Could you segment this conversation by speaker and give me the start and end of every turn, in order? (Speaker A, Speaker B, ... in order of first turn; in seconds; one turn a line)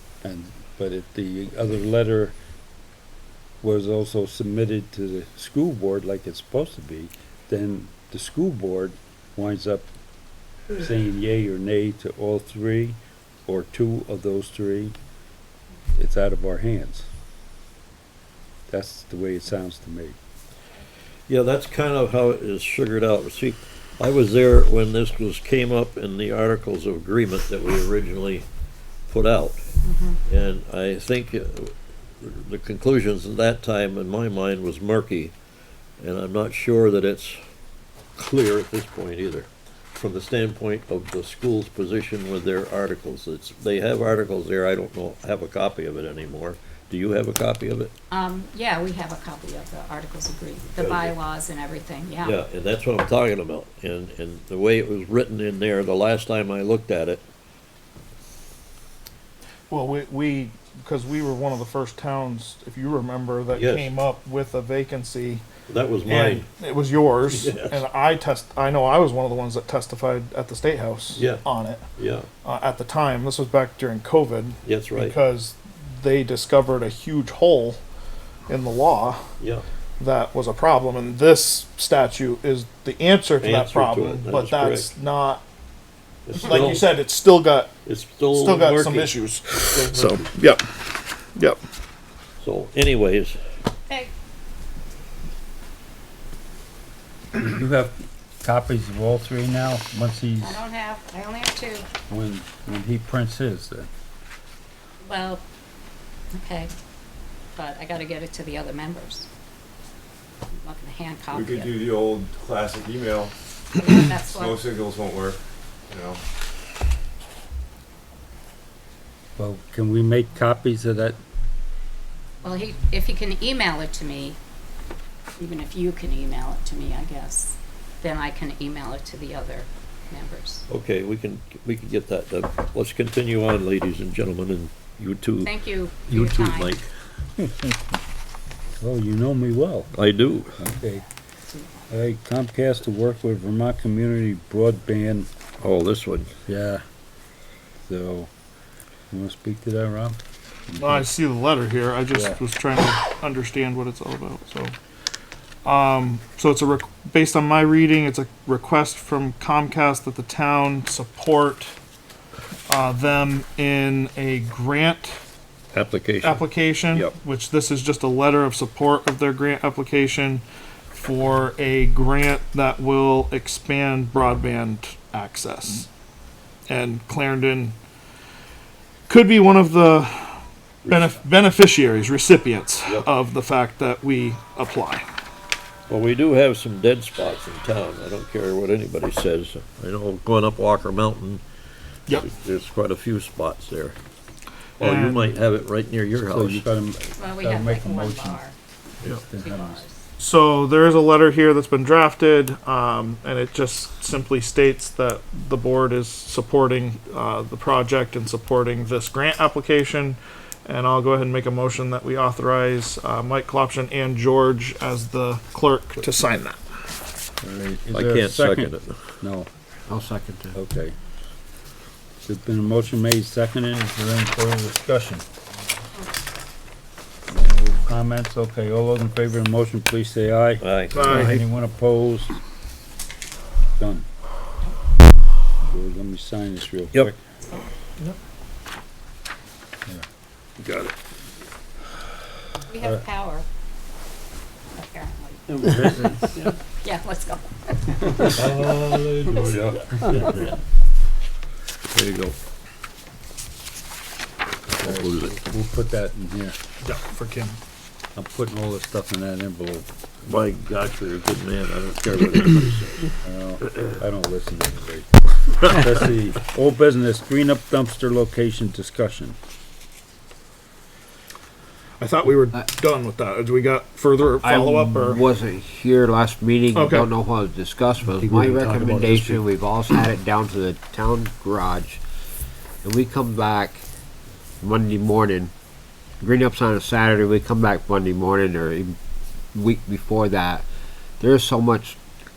Speaker A: 0.2-2.4
Speaker A: 3.6-9.9
Speaker A: 10.8-15.0
Speaker A: 15.9-17.1
Speaker A: 18.7-20.2
Speaker B: 21.3-28.5
Speaker B: 29.1-29.6
Speaker C: 29.8-30.2
Speaker B: 30.3-35.3
Speaker B: 36.0-37.4
Speaker B: 38.2-47.9
Speaker C: 48.1-52.4
Speaker B: 50.8-51.1
Speaker B: 52.2-57.2
Speaker D: 59.7-65.5
Speaker B: 63.5-63.9
Speaker B: 65.7-66.5
Speaker D: 66.1-71.9
Speaker B: 67.3-67.8
Speaker B: 71.1-71.4
Speaker B: 72.0-72.3
Speaker D: 72.4-77.8
Speaker B: 74.6-75.2
Speaker D: 78.5-79.3
Speaker B: 79.4-79.7
Speaker D: 80.0-85.4
Speaker B: 83.4-84.9
Speaker B: 86.3-86.9
Speaker D: 86.3-87.7
Speaker B: 87.9-90.3
Speaker D: 88.3-90.6
Speaker B: 92.4-93.4
Speaker A: 97.4-100.6
Speaker C: 100.4-101.9
Speaker A: 102.1-103.9
Speaker C: 105.0-105.4
Speaker C: 106.3-106.7
Speaker C: 107.5-109.3
Speaker C: 110.5-111.8
Speaker E: 111.3-113.3
Speaker C: 113.8-114.6
Speaker E: 114.2-116.2
Speaker A: 119.4-121.2
Speaker C: 122.4-124.4
Speaker C: 125.4-130.7
Speaker B: 130.7-135.5
Speaker C: 135.4-136.8
Speaker B: 136.1-136.9
Speaker A: 138.8-139.9
Speaker B: 139.9-140.6
Speaker A: 140.6-141.0
Speaker A: 141.9-145.3
Speaker B: 145.6-146.3
Speaker A: 146.5-146.8
Speaker A: 147.9-148.3
Speaker A: 149.1-150.2
Speaker A: 150.7-151.1
Speaker D: 150.8-154.8
Speaker A: 152.1-152.4
Speaker D: 155.6-161.7
Speaker D: 162.7-165.2
Speaker B: 165.7-166.4
Speaker D: 166.2-175.9
Speaker D: 176.7-177.8
Speaker D: 179.1-185.0
Speaker B: 180.8-181.2
Speaker B: 185.9-191.4
Speaker B: 192.1-194.0
Speaker B: 194.8-196.6
Speaker D: 194.8-195.4
Speaker A: 196.3-198.4
Speaker C: 197.2-198.6
Speaker A: 199.0-199.8
Speaker C: 199.4-200.0
Speaker D: 200.2-216.6
Speaker A: 217.4-219.5
Speaker B: 217.9-219.1
Speaker F: 219.9-220.6
Speaker A: 220.6-220.9
Speaker A: 222.2-225.2
Speaker A: 227.3-232.4
Speaker B: 230.6-231.1
Speaker D: 230.9-231.3
Speaker A: 233.8-234.1
Speaker A: 235.7-237.2
Speaker B: 240.6-240.9
Speaker C: 242.7-243.5
Speaker C: 244.8-246.3
Speaker A: 245.6-246.3
Speaker C: 246.8-248.3
Speaker A: 248.2-250.3
Speaker B: 248.3-250.6
Speaker B: 251.9-252.4
Speaker B: 254.8-255.4
Speaker A: 254.8-256.6
Speaker D: 256.8-257.6
Speaker A: 258.1-259.9
Speaker B: 260.2-263.1
Speaker A: 263.2-269.4
Speaker D: 272.0-275.2
Speaker F: 274.4-282.0
Speaker D: 276.7-277.1
Speaker A: 278.2-279.4
Speaker F: 282.8-283.9
Speaker F: 284.6-285.5
Speaker F: 286.2-289.0
Speaker F: 289.5-290.7
Speaker F: 291.2-292.0